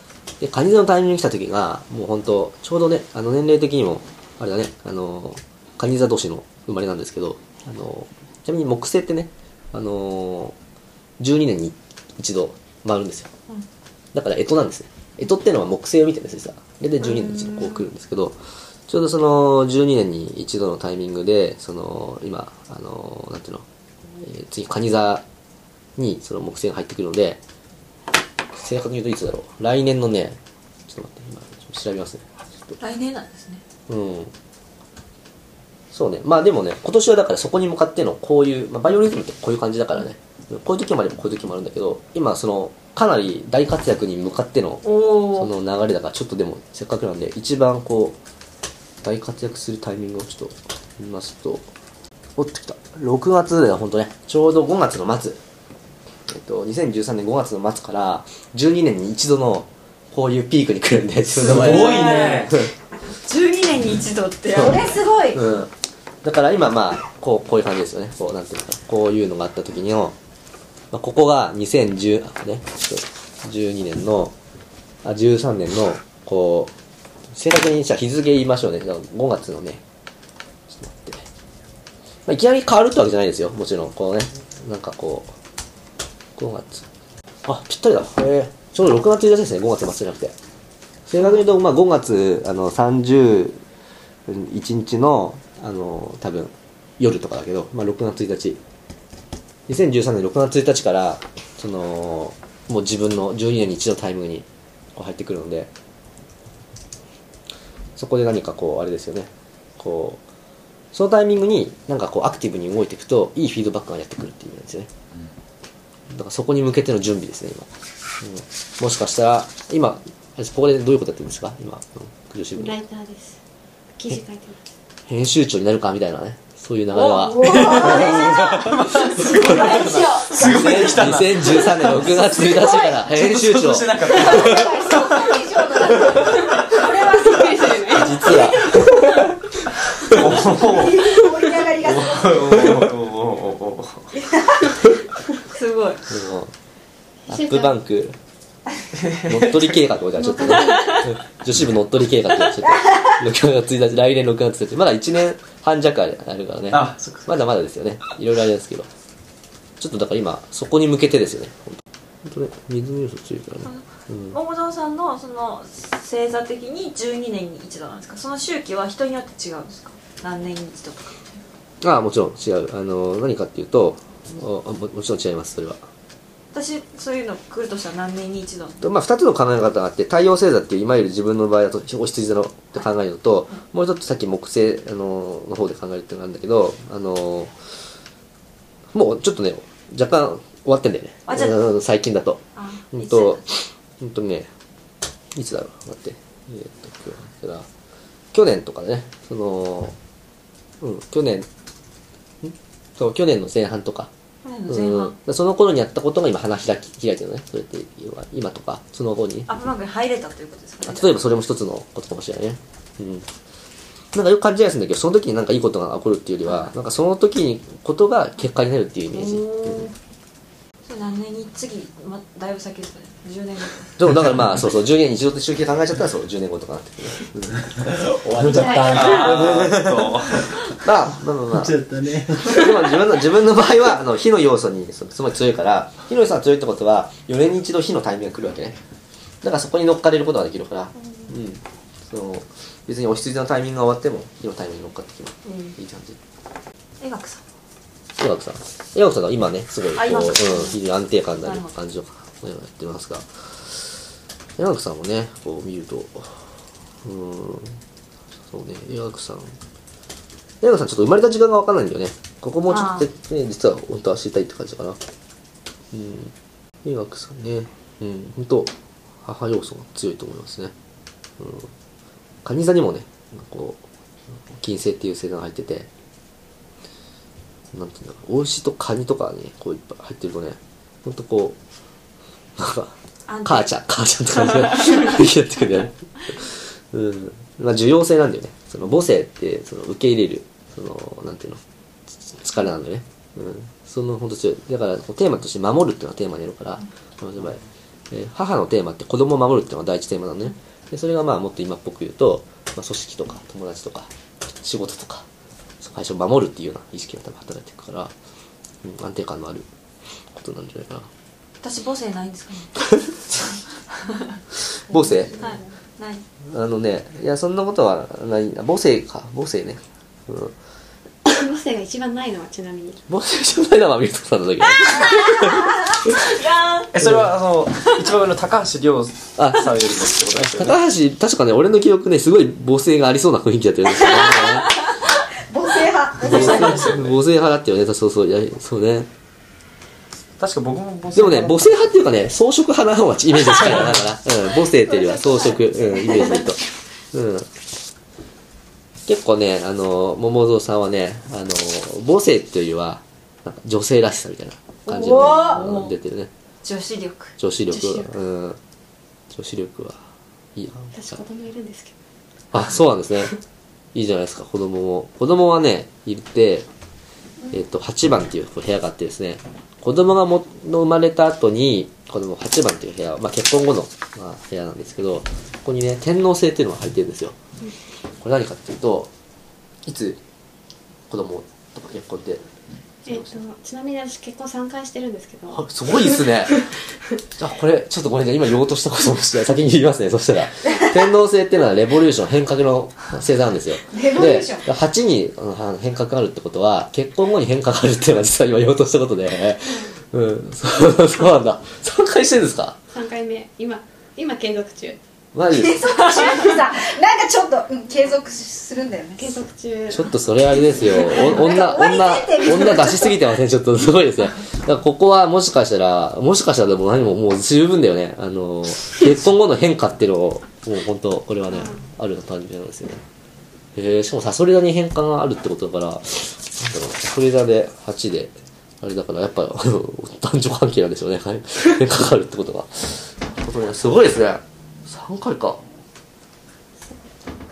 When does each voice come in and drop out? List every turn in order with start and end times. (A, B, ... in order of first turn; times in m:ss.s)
0:00.4-0:10.6 A
0:11.2-0:13.3 A
0:14.1-0:18.4 A
0:17.0-0:17.8 B
0:18.9-0:23.6 A
0:24.2-0:25.2 A
0:26.0-0:27.4 A
0:28.5-0:32.8 A
0:32.8-0:33.6 B
0:33.9-0:34.3 A
0:35.9-0:48.2 A
0:44.8-0:45.5 B
0:49.0-0:51.6 A
0:52.4-0:55.4 A
0:56.3-1:02.7 A
1:01.4-1:02.5 C
1:01.4-1:02.5 B
1:03.2-1:05.0 B
1:04.6-1:05.4 D
1:04.6-1:05.7 A
1:06.2-1:10.2 A
1:10.9-1:14.3 A
1:15.0-1:16.7 A
1:17.3-1:19.8 A
1:20.7-1:21.2 A
1:22.3-1:25.3 A
1:26.4-1:26.9 A
1:27.4-1:30.3 A
1:31.1-1:33.6 A
1:34.3-1:38.6 A
1:39.7-1:45.7 A
1:48.0-1:50.2 A
1:50.9-1:54.9 A
1:56.1-1:57.7 A
1:58.2-2:02.8 A
2:02.6-2:03.4 E
2:04.0-2:04.7 E
2:05.1-2:14.7 A
2:07.2-2:11.1 D
2:07.4-2:17.3 F
2:12.3-2:13.0 D
2:14.1-2:19.0 D
2:17.4-2:18.2 E
2:17.9-2:19.3 A
2:20.0-2:21.3 F
2:20.1-2:20.4 A
2:20.3-2:22.7 D
2:21.8-2:24.1 F
2:22.6-2:22.9 A
2:25.5-2:26.1 B
2:26.1-2:26.5 A
2:27.3-2:27.7 E
2:27.3-2:28.2 A
2:28.9-2:29.8 F
2:29.3-2:38.9 A
2:30.2-2:31.0 E
2:30.5-2:31.1 B
2:36.7-2:37.4 F
2:39.8-2:44.4 A
2:43.6-2:51.4 B
2:51.8-2:55.8 A
2:56.5-2:58.8 B
2:58.8-3:07.5 A
3:08.9-3:12.4 A
3:11.3-3:11.6 B
3:12.6-3:13.4 B
3:12.9-3:14.5 A
3:15.4-3:17.7 A
3:18.3-3:20.0 A
3:20.8-3:21.5 A
3:22.4-3:24.1 A
3:24.4-3:25.2 B
3:24.7-3:29.5 A
3:29.5-3:31.2 B
3:30.8-3:33.3 A
3:34.1-3:39.9 A
3:36.5-3:36.7 B
3:39.1-3:39.9 B
3:40.8-3:44.0 B
3:44.0-3:47.8 A
3:47.8-3:49.8 C
3:48.5-3:50.5 F
3:48.5-3:51.8 A
3:48.6-3:49.3 B
3:51.5-3:52.8 C
3:52.4-3:58.8 A
3:59.4-4:06.2 A
4:05.5-4:05.8 B
4:07.0-4:07.4 B
4:08.2-4:13.9 A
4:10.0-4:10.8 B
4:11.4-4:11.7 B
4:14.6-4:16.4 A
4:17.0-4:17.8 A
4:18.5-4:19.5 A
4:20.6-4:25.0 A
4:22.7-4:23.1 B
4:25.9-4:26.3 A
4:26.8-4:28.7 A
4:29.2-4:30.7 A
4:31.4-4:31.7 A
4:32.4-4:33.8 A
4:34.5-4:35.9 A
4:37.7-4:41.6 A
4:42.6-4:42.9 A
4:43.3-4:43.7 B
4:43.4-4:51.6 A
4:52.3-4:57.6 A
4:58.1-5:05.2 A
5:05.8-5:08.1 A
5:08.8-5:09.7 A
5:10.3-5:11.1 A
5:11.6-5:12.8 B
5:14.0-5:14.4 B
5:14.9-5:15.4 A
5:14.9-5:15.6 E
5:15.4-5:16.2 B
5:16.5-5:20.5 A
5:21.3-5:23.0 E
5:23.1-5:26.1 A
5:24.9-5:26.9 B
5:26.9-5:30.8 F
5:27.0-5:27.3 A
5:29.4-5:29.8 A
5:30.4-5:34.7 A
5:34.4-5:34.6 B
5:35.5-5:37.0 D
5:36.2-5:39.1 A
5:36.3-5:36.9 B
5:36.5-5:37.2 F
5:40.4-5:41.7 F
5:41.1-5:46.6 A
5:43.6-5:44.0 F
5:45.0-5:46.4 B
5:47.1-5:47.5 A
5:49.1-5:56.3 A
5:54.9-5:55.9 B
5:55.1-5:55.5 D
5:56.6-5:57.3 B
5:57.4-5:58.6 A
5:57.7-5:58.0 E
5:59.3-6:00.0 A
6:00.6-6:00.9 A
6:00.9-6:02.0 E
6:02.5-6:03.4 A
6:03.9-6:06.7 A
6:07.5-6:17.4 A
6:18.2-6:19.1 A
6:19.8-6:20.2 A
6:21.1-6:22.4 A
6:23.1-6:25.6 E
6:23.1-6:23.4 A
6:25.5-6:26.7 A
6:27.4-6:42.8 A
6:33.9-6:34.6 D
6:42.9-6:45.0 E
6:45.4-6:46.0 A
6:45.5-6:49.3 D
6:49.2-6:50.1 E
6:49.9-7:03.0 A
6:50.9-6:53.2 D
7:03.8-7:15.6 A